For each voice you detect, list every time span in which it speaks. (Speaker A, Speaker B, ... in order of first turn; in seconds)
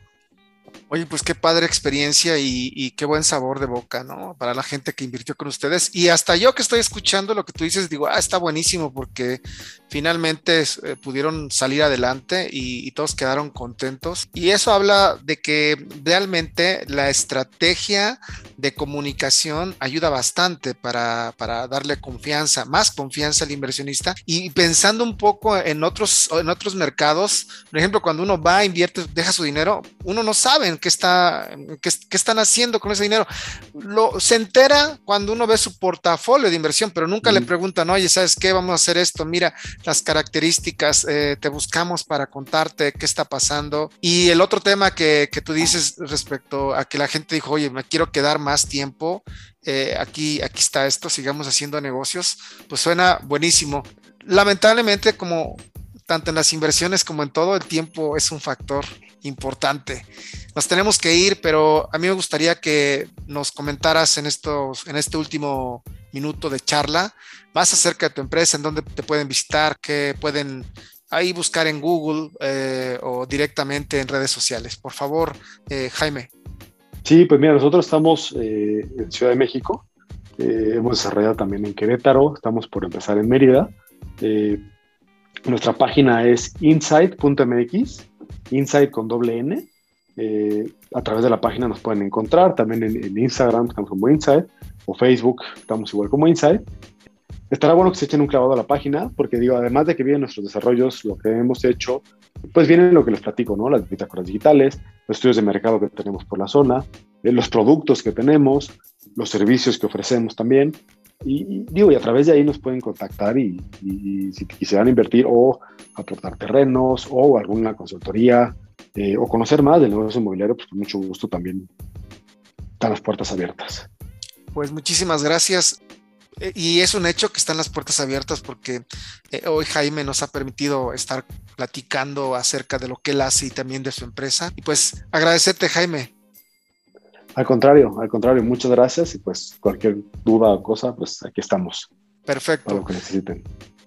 Speaker A: 0.9-76.3, 124.5-125.8, 126.4-136.1, 142.2-142.8
Speaker B: 37.2-37.5, 77.0-79.8, 80.4-84.6, 85.5-96.6, 97.5-121.7, 122.8-123.9, 137.3-141.9, 142.7-143.5